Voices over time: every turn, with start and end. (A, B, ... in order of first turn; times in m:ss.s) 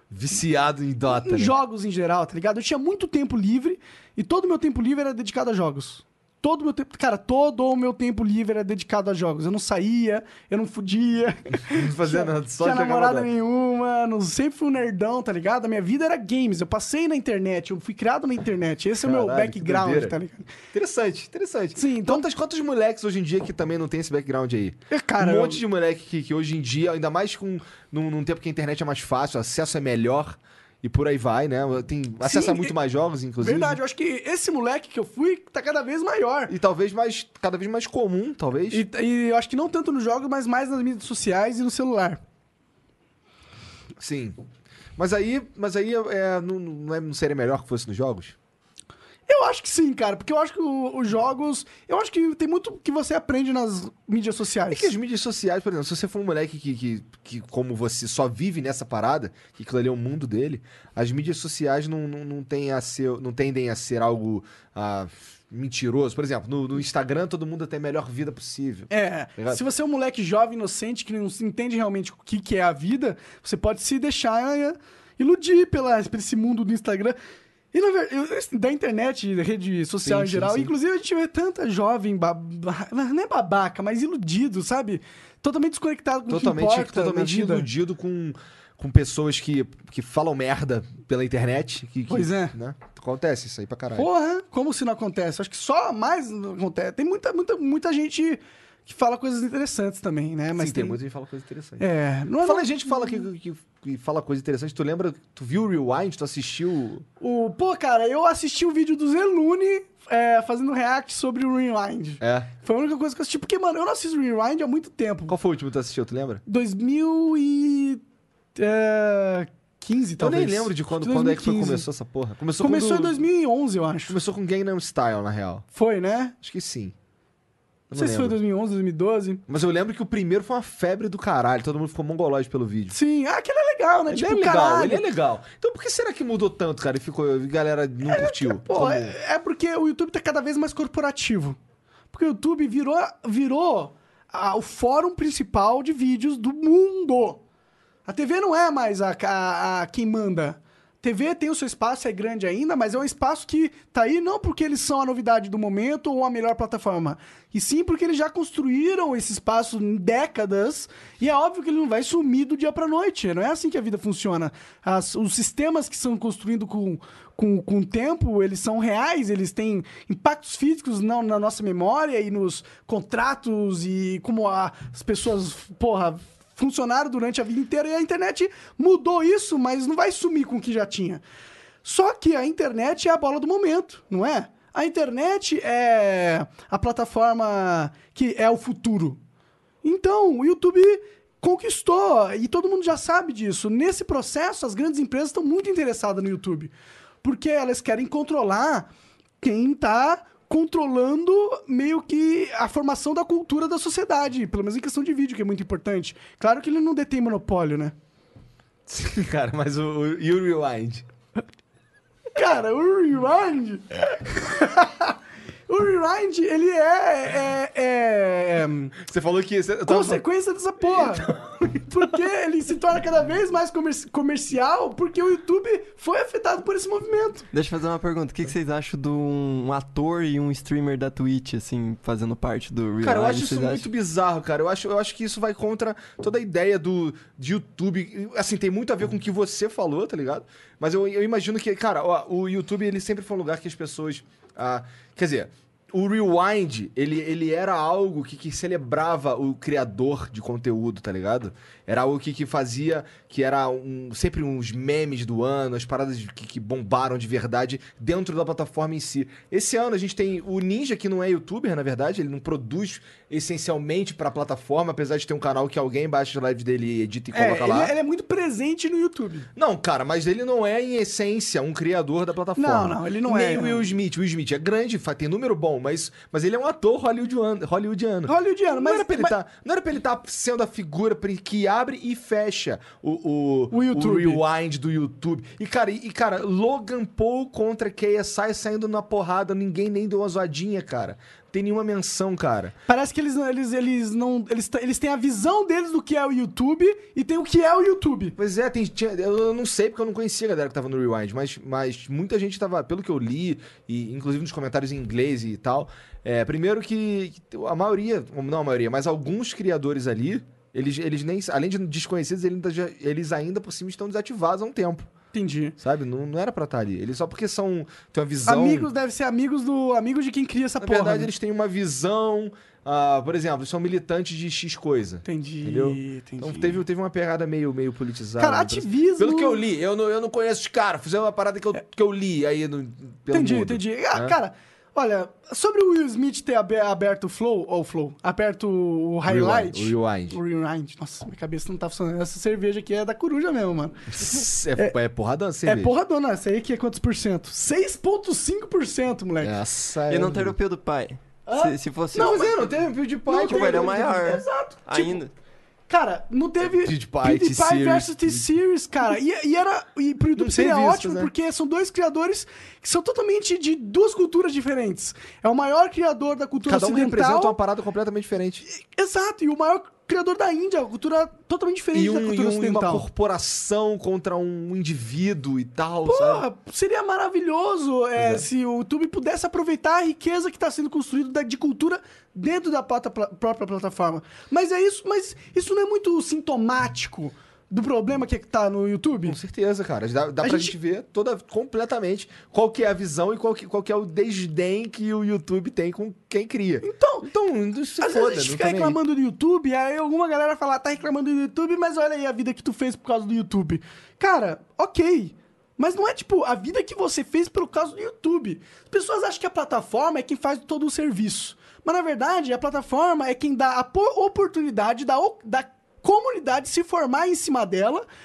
0:00.1-0:01.6 A
0:01.1-0:20.5 B
0:11.7-0:13.3 A
0:19.0-0:20.2 A
0:20.7-0:33.8 A
0:21.8-0:22.3 B
0:24.9-0:25.6 B
0:32.2-0:32.8 B
0:33.4-0:36.5 B
0:36.5-0:38.8 A
0:38.7-0:42.2 B
0:44.0-0:44.4 A
0:45.0-0:48.4 A
0:49.3-0:54.9 B
0:54.7-1:09.6 A
1:08.9-1:17.2 B
1:17.7-1:27.7 B
1:20.0-1:20.7 A
1:26.3-1:34.1 A
1:32.1-1:32.5 B
1:34.0-1:41.0 B
1:40.6-1:41.8 A
1:41.8-1:43.2 B
1:42.4-1:47.1 A
1:47.2-1:55.4 B
1:52.2-1:52.5 A
1:55.3-1:56.4 A
1:56.5-1:58.0 B
1:58.6-2:01.9 B
2:00.2-2:03.2 A
2:02.6-2:04.2 B
2:04.1-2:05.6 A
2:05.7-2:06.4 B
2:06.4-2:06.9 A
2:07.9-2:08.4 A
2:07.9-2:09.4 B
2:09.5-2:13.0 A
2:12.9-2:15.1 B
2:14.1-2:19.2 A
2:18.0-2:21.6 B
2:22.1-2:27.4 B
2:28.1-3:01.2 B
3:01.8-3:09.2 B
3:09.8-3:16.7 B
3:17.2-3:18.9 B
3:19.4-3:27.9 B
3:28.9-3:31.0 A
3:32.4-3:35.2 B
3:35.7-3:39.0 B
3:39.0-3:40.2 A
3:39.9-3:47.5 B
3:41.2-3:41.7 A
3:47.5-3:53.9 C
3:53.0-4:27.9 A
4:27.3-4:29.5 B
4:29.6-4:52.7 A
4:32.6-4:33.9 B
4:38.3-4:39.4 B
4:43.7-4:44.4 B
4:52.9-4:58.4 B
4:58.4-5:15.1 A
5:15.3-5:15.8 B
5:15.8-5:18.9 A
5:18.4-5:21.3 B
5:20.8-5:34.4 A
5:25.2-5:26.8 B
5:28.4-5:29.6 B
5:33.3-5:45.0 B
5:39.3-5:40.4 A
5:44.1-5:45.9 A
5:45.6-5:49.5 B
5:49.4-5:50.6 A
5:50.1-5:52.7 C
5:51.5-5:52.7 B
5:52.1-5:54.4 A
5:53.3-5:55.2 B
5:53.3-5:55.3 C
5:55.9-6:07.6 B
5:56.7-5:58.5 A
6:00.4-6:01.3 A
6:06.6-6:08.6 A
6:08.6-6:13.1 B
6:11.9-6:16.5 A
6:16.0-6:29.4 B
6:18.2-6:18.4 A
6:29.2-6:39.0 A
6:30.4-6:30.8 B
6:36.8-6:37.3 B
6:38.0-6:58.0 B